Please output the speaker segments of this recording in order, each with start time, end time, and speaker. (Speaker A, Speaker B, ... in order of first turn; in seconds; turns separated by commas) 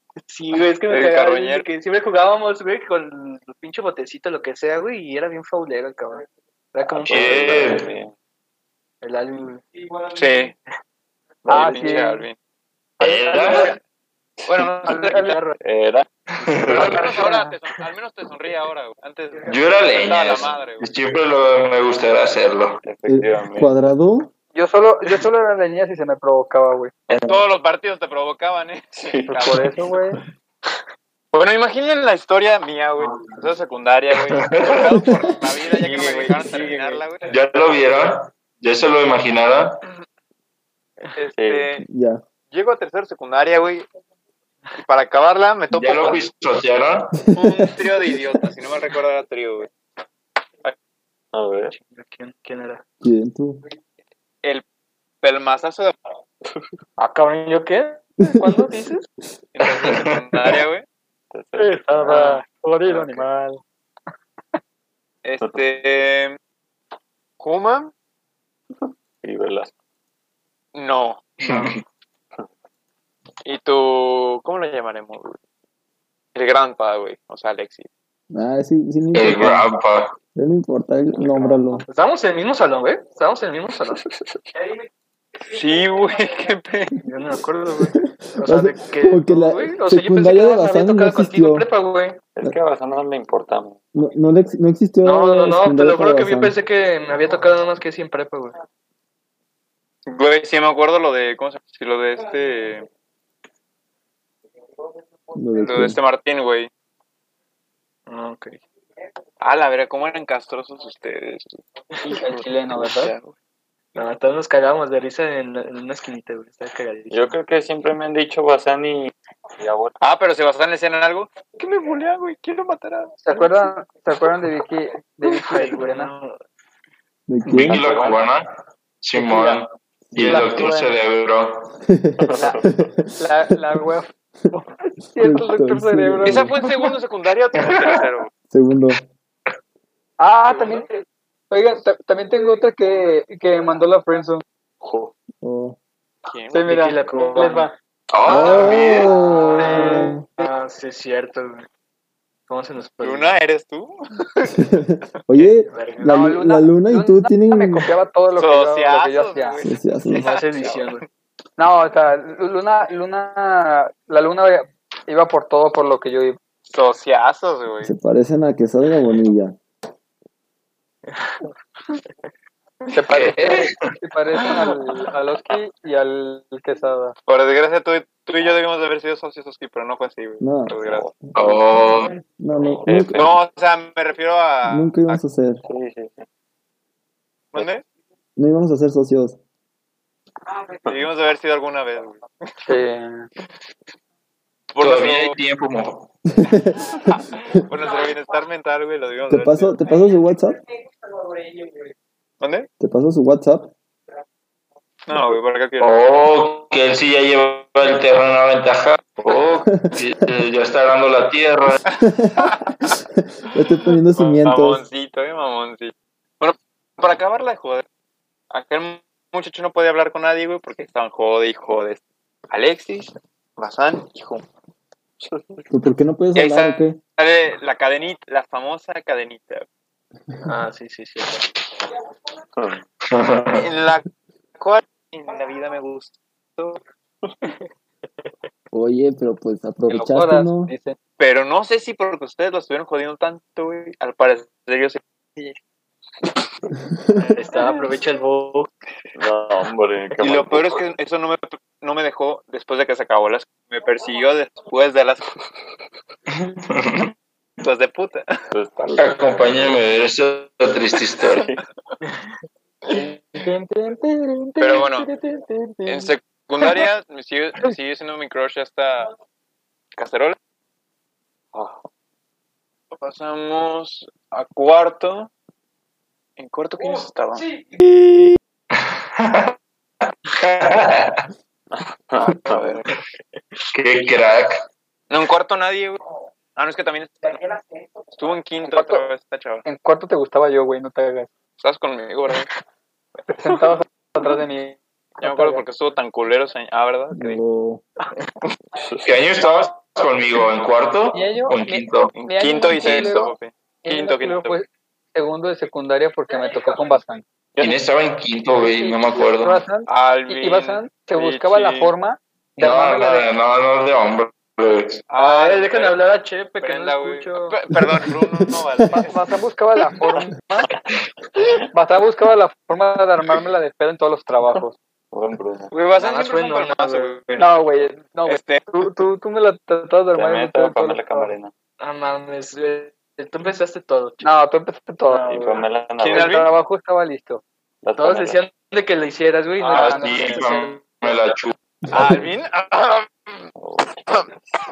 Speaker A: 0.2-7.8, Speaker B: 0.9-1.6, Speaker C: 6.9-8.1, Speaker D: 7.1-7.9, Speaker A: 9.0-9.7, Speaker B: 10.1-10.5, Speaker C: 11.4-12.1, Speaker E: 11.5-12.2, Speaker B: 11.5-12.4, Speaker D: 13.0-13.7, Speaker E: 13.0-13.8, Speaker B: 14.5-15.4, Speaker E: 14.9-15.5, Speaker A: 15.1-15.5, Speaker C: 15.6-17.1, Speaker D: 16.4-17.1, Speaker A: 16.7-17.1, Speaker B: 16.7-20.9, Speaker E: 17.1-17.5, Speaker D: 19.5-22.8, Speaker C: 22.8-23.7, Speaker F: 23.1-24.3, Speaker E: 24.6-26.9, Speaker C: 27.1-27.4, Speaker B: 27.1-29.7, Speaker C: 29.0-29.7, Speaker E: 29.4-30.2, Speaker B: 31.3-37.3, Speaker D: 34.1-35.2, Speaker C: 35.8-37.0, Speaker D: 37.2-39.8, Speaker B: 41.2-41.9, Speaker C: 41.4-41.7, Speaker F: 41.8-42.2, Speaker B: 42.5-43.9, Speaker B: 44.8-46.2, Speaker D: 45.7-47.2, Speaker F: 47.3-47.8, Speaker B: 47.4-49.7, Speaker C: 51.3-51.8, Speaker A: 51.7-52.8, Speaker F: 53.0-53.6, Speaker B: 55.2-55.9, Speaker A: 57.0-59.1, Speaker F: 58.2-58.7, Speaker B: 59.5-60.9, Speaker D: 59.6-60.5, Speaker C: 61.3-62.3, Speaker E: 61.6-63.6, Speaker C: 62.9-63.2, Speaker B: 65.2-66.4, Speaker B: 67.4-67.9, Speaker C: 68.8-69.7, Speaker B: 70.8-71.7, Speaker D: 71.4-71.8, Speaker B: 73.5-75.4, Speaker B: 76.3-77.9, Speaker F: 78.3-79.7, Speaker D: 79.1-80.1, Speaker F: 80.3-81.9, Speaker C: 81.2-81.6, Speaker A: 81.8-84.0, Speaker B: 85.5-87.0, Speaker A: 87.0-92.2, Speaker F: 88.0-91.7, Speaker C: 92.4-93.8, Speaker F: 93.9-96.6, Speaker A: 95.0-98.6, Speaker B: 100.1-102.9, Speaker F: 105.3-106.0, Speaker B: 105.6-106.7, Speaker A: 108.1-108.6, Speaker B: 109.4-113.3, Speaker E: 112.1-113.1, Speaker A: 114.0-117.4, Speaker C: 117.1-120.0, Speaker B: 120.0-123.4, Speaker E: 123.2-126.1, Speaker A: 125.3-126.4, Speaker F: 127.3-127.9, Speaker D: 127.5-128.5, Speaker C: 127.7-128.2, Speaker D: 129.0-131.7, Speaker E: 129.2-129.6, Speaker F: 130.1-130.5, Speaker E: 130.2-130.9, Speaker F: 131.9-133.5, Speaker C: 132.3-132.6, Speaker E: 133.2-134.6, Speaker E: 135.1-136.5, Speaker F: 135.2-136.5, Speaker B: 136.2-138.3, Speaker D: 137.6-138.1, Speaker F: 138.5-139.0, Speaker E: 140.2-140.9, Speaker E: 141.5-144.4, Speaker C: 144.8-145.1, Speaker F: 145.4-145.8, Speaker B: 146.2-146.7, Speaker E: 146.5-147.7, Speaker A: 146.7-147.7, Speaker D: 148.1-149.1, Speaker B: 148.3-150.1, Speaker F: 148.3-150.2, Speaker A: 148.6-151.7, Speaker E: 149.6-150.0, Speaker A: 152.5-153.4, Speaker B: 153.0-154.6, Speaker F: 154.6-157.9, Speaker A: 155.6-156.2, Speaker E: 156.1-159.6, Speaker B: 158.3-161.0, Speaker F: 159.6-160.3, Speaker A: 160.1-161.0, Speaker E: 161.6-166.4, Speaker B: 166.7-167.9, Speaker F: 167.8-169.6, Speaker A: 171.1-171.4, Speaker E: 172.9-177.2, Speaker D: 173.1-173.9, Speaker B: 177.3-181.1, Speaker F: 180.4-180.7, Speaker C: 180.8-181.3, Speaker D: 181.3-182.2, Speaker F: 182.3-183.3, Speaker C: 182.6-183.4, Speaker B: 183.1-185.2, Speaker F: 184.7-185.6, Speaker C: 185.7-186.3, Speaker B: 187.5-187.8, Speaker F: 188.4-189.4, Speaker B: 190.9-192.7, Speaker E: 192.7-193.3, Speaker B: 194.7-195.4, Speaker D: 194.8-196.1, Speaker F: 196.4-197.0, Speaker B: 197.1-199.8, Speaker F: 199.3-200.6, Speaker B: 202.4-202.7, Speaker F: 202.8-203.7, Speaker B: 205.1-206.0, Speaker D: 205.8-211.8, Speaker F: 209.7-209.9, Speaker F: 212.0-214.8, Speaker B: 212.4-212.9, Speaker B: 214.1-217.8, Speaker B: 218.5-224.4, Speaker C: 225.2-225.7, Speaker F: 225.7-227.0, Speaker B: 226.3-229.7, Speaker A: 230.4-231.5, Speaker C: 232.6-232.8, Speaker D: 233.1-233.7, Speaker B: 233.5-234.1, Speaker B: 234.6-236.8, Speaker F: 238.7-240.7, Speaker E: 239.9-241.0, Speaker B: 241.2-245.6, Speaker A: 247.2-248.7, Speaker C: 249.2-250.8, Speaker B: 250.2-255.2, Speaker D: 256.7-257.1, Speaker B: 257.6-258.3, Speaker C: 258.5-259.8, Speaker D: 259.0-261.5, Speaker B: 262.8-263.2, Speaker E: 262.9-266.8, Speaker B: 264.6-265.1, Speaker B: 265.9-269.1, Speaker B: 270.0-270.4, Speaker C: 271.5-271.9, Speaker B: 272.9-275.3, Speaker B: 276.4-277.5, Speaker D: 279.2-279.5, Speaker D: 280.4-281.2, Speaker C: 281.7-282.8, Speaker B: 282.4-282.9, Speaker D: 283.7-284.6, Speaker B: 285.1-286.0, Speaker B: 286.6-287.6, Speaker B: 288.1-289.6, Speaker E: 288.6-289.1, Speaker E: 289.6-291.3, Speaker B: 291.6-292.5, Speaker E: 293.3-295.6, Speaker B: 295.2-297.4, Speaker F: 297.1-297.8, Speaker C: 298.8-299.1, Speaker D: 299.0-303.3, Speaker E: 301.1-303.3, Speaker B: 302.1-304.6, Speaker E: 303.9-307.2, Speaker D: 307.6-309.7, Speaker E: 308.6-313.3, Speaker B: 309.9-311.9, Speaker D: 312.6-315.1, Speaker B: 315.1-316.0, Speaker A: 315.2-317.3, Speaker B: 316.6-319.2, Speaker F: 317.7-318.9, Speaker E: 318.9-320.7, Speaker E: 321.7-324.8, Speaker C: 325.1-325.7, Speaker B: 325.7-327.5, Speaker A: 326.0-327.5, Speaker E: 327.4-331.3, Speaker B: 328.3-328.7, Speaker C: 330.1-331.5, Speaker A: 331.8-334.2, Speaker E: 334.2-335.6, Speaker C: 335.2-336.5, Speaker B: 336.0-336.5, Speaker E: 336.1-337.4, Speaker C: 337.8-338.4, Speaker A: 338.0-340.2, Speaker E: 339.6-341.1, Speaker B: 339.7-340.2, Speaker D: 339.8-341.6, Speaker F: 341.9-342.2, Speaker B: 341.9-343.5, Speaker C: 343.6-344.4